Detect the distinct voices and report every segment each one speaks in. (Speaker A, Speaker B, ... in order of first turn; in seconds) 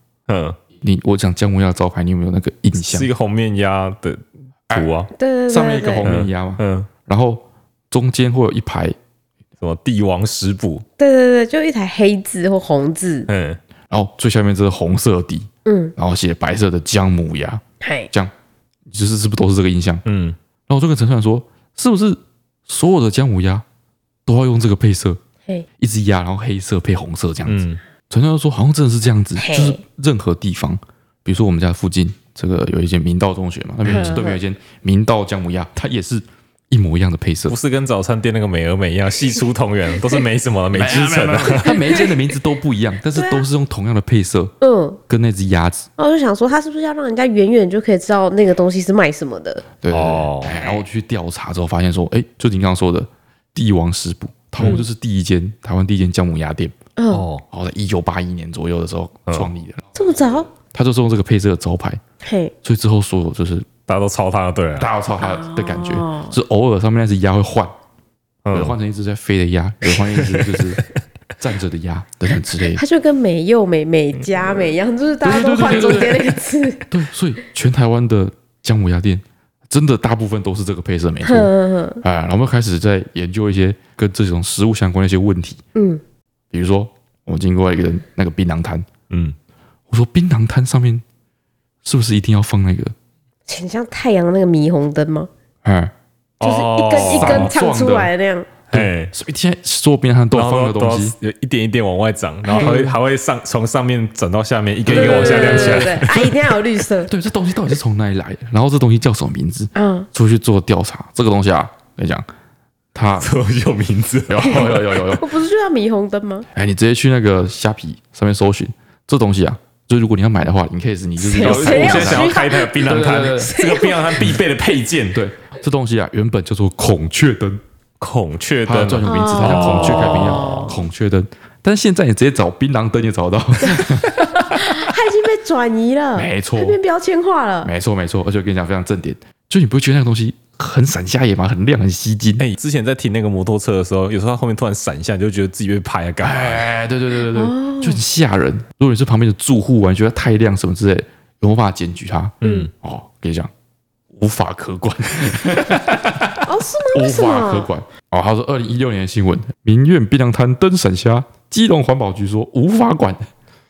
Speaker A: 0.3-0.6, 2.8-5.1, 6.0-6.9, 9.6-10.8, 13.3-13.6, 20.1-20.4, 27.5-27.8, 33.9-34.2, 37.5-41.8, 49.9-50.6, 54.6-54.8, 57.1-57.4, 63.9-64.9, 68.5-68.8, 69.9-70.8, 74.2-74.7, 75.7-76.2, 89.1-89.3, 96.4-97.5, 98.7-99.1, 100.3-106.5, 113.2-114.8, 121.4-125.2, 128.0-130.7, 142.4-146.7, 152.4-152.7
Speaker B: 0.8-3.1, 5.5-9.0, 13.9-18.3, 18.9-20.0, 20.7-23.6, 24.3-25.2, 25.8-37.6, 40.7-44.5, 45.1-45.9, 49.8-56.8, 57.5-59.9, 60.7-62.0, 62.6-63.7, 64.8-67.7, 68.5-70.8, 71.4-72.8, 75.2-76.3, 76.9-81.5, 82.0-85.6, 86.5-88.9, 89.9-91.0, 91.8-92.9, 95.6-95.9, 97.0-98.1, 98.7-101.2, 102.6-103.0, 104.9-106.0, 107.1-112.2, 112.9-113.3, 114.3-115.2, 116.5-123.5, 125.1-127.6, 128.7-134.8, 136.2-136.8, 137.6-142.4, 146.2-153.5, 154.1-163.3
Speaker C: 5.2-6.1, 11.0-13.3, 15.7-15.9, 17.8-18.1, 29.4-29.8, 33.9-34.4, 41.6-42.0, 43.1-43.5, 44.6-45.0, 46.0-49.7, 54.6-54.9, 57.0-57.3, 60.0-60.5, 62.2-62.5, 65.2-66.4, 72.8-76.9, 81.2-82.0, 85.8-86.0, 93.5-95.3, 96.4-98.5, 102.4-102.7, 104.9-107.1, 109.8-110.1, 114.4-116.5, 121.2-124.2, 129.0-130.8, 133.7-137.7, 147.3-148.0, 152.4-152.7, 156.4-157.7